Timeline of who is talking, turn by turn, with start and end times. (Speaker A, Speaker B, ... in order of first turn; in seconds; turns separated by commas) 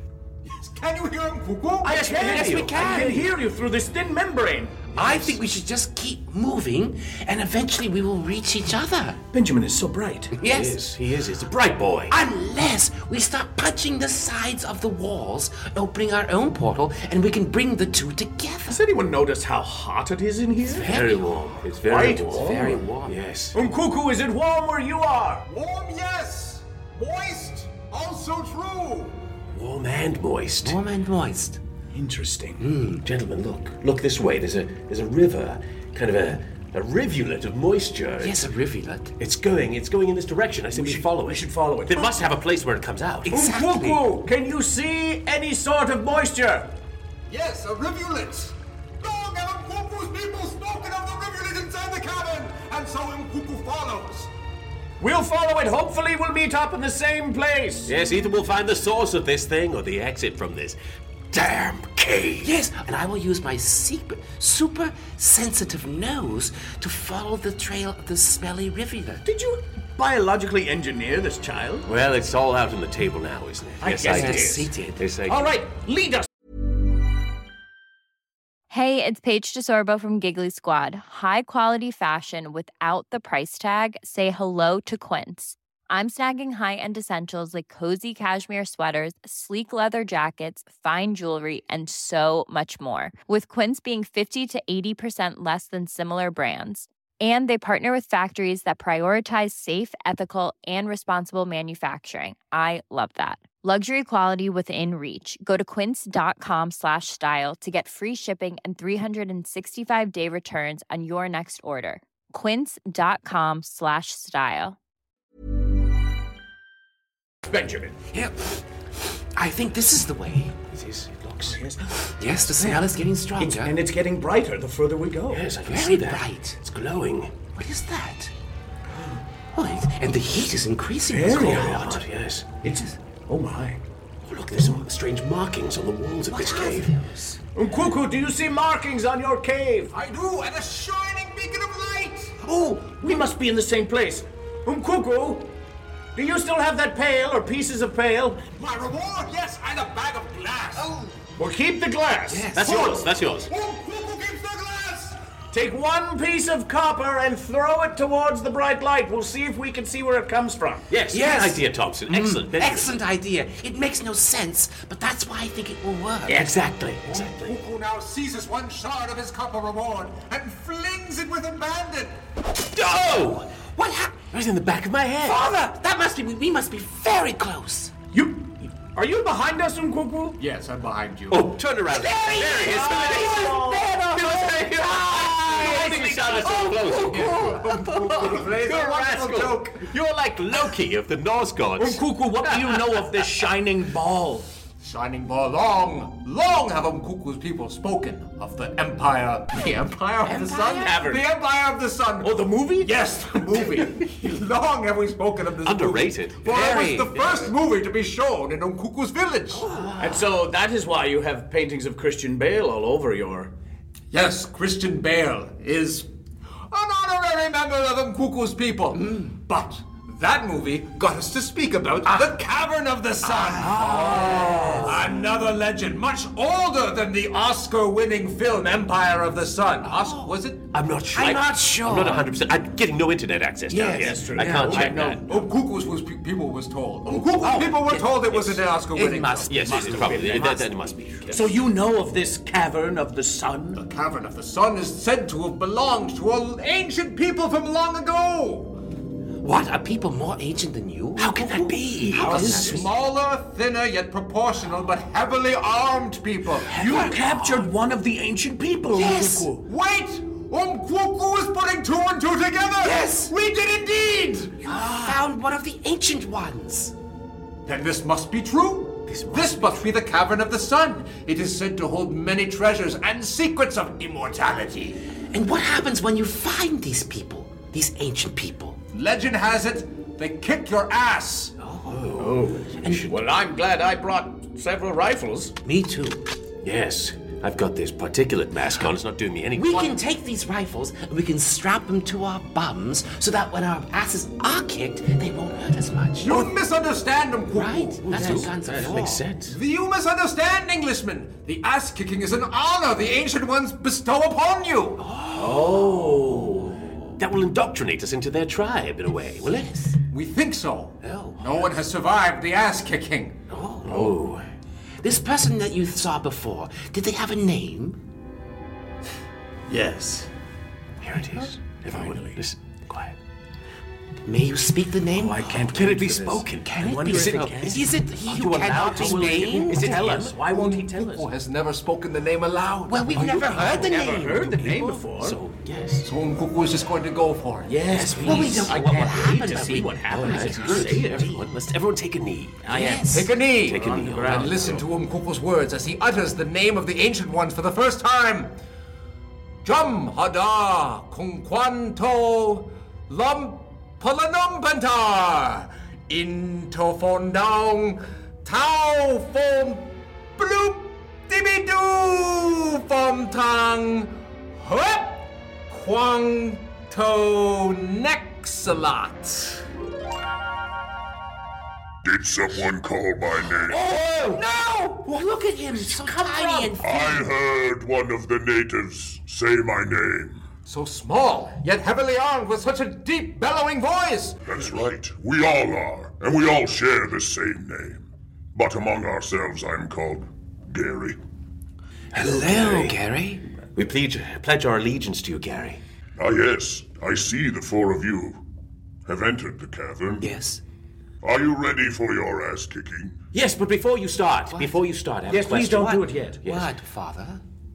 Speaker A: 0.4-2.1, Speaker B: 1.8-3.2, Speaker C: 1.8-5.4, Speaker D: 2.1-3.3, Speaker D: 4.9-9.2, Speaker C: 9.3-10.3, Speaker D: 10.4-10.8, Speaker B: 10.4-12.2, Speaker D: 12.1-18.8, Speaker C: 18.7-20.9, Speaker D: 20.6-21.6, Speaker B: 20.8-23.6, Speaker C: 21.9-22.8, Speaker D: 22.2-23.1, Speaker C: 23.5-25.4, Speaker A: 25.4-29.2, Speaker B: 29.5-30.8, Speaker D: 30.6-31.6, Speaker C: 31.9-32.6, Speaker D: 32.6-33.0, Speaker B: 33.0-38.5, Speaker D: 38.2-39.1, Speaker B: 39.2-43.3, Speaker C: 40.7-42.2, Speaker D: 43.2-44.0, Speaker C: 43.3-46.7, Speaker A: 47.3-54.3, Speaker C: 55.0-57.9, Speaker B: 57.9-60.8, Speaker B: 61.3-62.5, Speaker D: 62.4-69.2, Speaker C: 69.2-71.9, Speaker B: 71.9-75.5, Speaker C: 73.8-74.7, Speaker D: 74.0-75.0, Speaker C: 75.2-76.3, Speaker E: 78.7-114.8, Speaker C: 117.5-118.0, Speaker D: 118.1-118.6, Speaker D: 119.3-120.5, Speaker B: 120.7-121.7, Speaker C: 121.4-121.9, Speaker D: 122.2-123.8, Speaker C: 122.5-122.8, Speaker C: 123.4-125.5, Speaker B: 125.3-127.3, Speaker D: 125.7-126.6, Speaker D: 127.5-128.3, Speaker D: 129.5-132.0, Speaker C: 131.1-131.9, Speaker B: 131.3-132.5, Speaker D: 132.6-132.9, Speaker C: 132.6-133.8, Speaker D: 134.3-134.8, Speaker B: 134.3-136.9, Speaker D: 136.3-137.4, Speaker C: 137.5-139.9, Speaker A: 139.9-142.4, Speaker C: 142.4-145.5, Speaker C: 146.1-148.4, Speaker A: 148.5-150.9, Speaker D: 150.8-151.2, Speaker C: 151.4-152.6, Speaker D: 152.3-153.0, Speaker B: 152.5-153.5, Speaker A: 152.6-155.2, Speaker C: 155.5-160.9, Speaker B: 160.9-163.0, Speaker D: 161.1-166.5, Speaker B: 166.3-167.6, Speaker A: 167.0-172.2, Speaker B: 172.7-173.6, Speaker D: 173.7-174.2, Speaker B: 174.3-175.5, Speaker D: 175.2-177.9, Speaker C: 178.1-180.4, Speaker A: 180.4-181.5, Speaker B: 181.3-193.5, Speaker D: 181.9-185.1, Speaker C: 182.4-183.9, Speaker C: 185.5-186.7, Speaker A: 185.5-189.9, Speaker C: 191.8-194.5, Speaker A: 194.8-209.7, Speaker D: 200.2-201.0, Speaker C: 200.8-201.3, Speaker C: 202.2-203.0, Speaker B: 205.6-207.5, Speaker D: 209.5-210.3, Speaker B: 209.6-210.0, Speaker C: 210.0-213.5, Speaker A: 214.1-216.1, Speaker A: 216.7-230.7, Speaker D: 218.9-219.3, Speaker D: 222.0-222.3, Speaker D: 223.2-224.9, Speaker B: 223.6-225.0, Speaker C: 224.2-224.7, Speaker D: 229.8-230.3, Speaker B: 230.7-235.4, Speaker D: 231.1-232.3, Speaker D: 233.7-234.9, Speaker C: 233.9-235.3, Speaker A: 235.2-239.9, Speaker B: 237.2-238.6, Speaker D: 237.2-240.9, Speaker B: 239.5-241.5, Speaker C: 239.5-240.7, Speaker C: 241.3-243.8, Speaker A: 243.7-248.8, Speaker D: 249.4-252.9, Speaker B: 251.2-252.9, Speaker C: 252.2-252.7, Speaker A: 252.2-256.7, Speaker C: 256.7-259.6, Speaker D: 256.8-257.5, Speaker B: 256.8-257.6, Speaker D: 258.9-259.5, Speaker A: 259.6-264.7, Speaker D: 262.8-263.3, Speaker D: 264.6-266.9, Speaker A: 267.6-275.0, Speaker B: 269.1-269.9, Speaker D: 275.3-278.8, Speaker A: 278.9-281.5, Speaker D: 281.6-281.9, Speaker B: 281.9-283.1, Speaker C: 282.2-285.5, Speaker D: 285.6-286.2, Speaker B: 286.6-289.9, Speaker D: 289.5-296.5, Speaker A: 296.2-298.4, Speaker D: 297.5-299.2, Speaker B: 298.1-299.6, Speaker C: 298.2-298.4, Speaker A: 299.4-305.0, Speaker D: 305.0-305.9, Speaker C: 305.4-306.7, Speaker B: 305.4-309.8, Speaker D: 309.4-310.0, Speaker A: 310.1-313.4, Speaker D: 311.0-311.7, Speaker D: 313.5-314.1, Speaker B: 313.9-314.4, Speaker D: 315.0-318.0, Speaker C: 319.7-320.3, Speaker B: 321.0-323.2, Speaker C: 321.9-322.4, Speaker D: 324.2-330.1, Speaker B: 325.2-330.6, Speaker C: 325.2-326.4, Speaker C: 327.0-327.9, Speaker C: 328.8-331.2, Speaker A: 330.4-333.9, Speaker D: 332.9-335.0, Speaker B: 333.5-336.1, Speaker C: 333.6-335.4, Speaker A: 336.0-338.3, Speaker C: 337.6-341.3, Speaker B: 337.8-342.8, Speaker D: 338.0-341.4, Speaker C: 342.6-343.1, Speaker D: 342.6-343.3, Speaker A: 343.0-348.6, Speaker B: 343.6-344.8, Speaker C: 343.7-344.8, Speaker A: 349.6-369.6, Speaker F: 372.0-373.8, Speaker D: 373.7-377.3, Speaker C: 376.0-376.8, Speaker F: 376.8-380.4, Speaker A: 380.6-384.4, Speaker F: 384.4-391.2, Speaker B: 392.1-393.0, Speaker D: 392.1-393.4, Speaker B: 393.7-395.8, Speaker F: 396.2-398.4, Speaker F: 399.1-400.2, Speaker D: 400.2-400.6, Speaker F: 401.2-403.2, Speaker B: 403.3-406.7, Speaker D: 404.5-404.8, Speaker C: 405.3-406.4, Speaker D: 405.5-407.4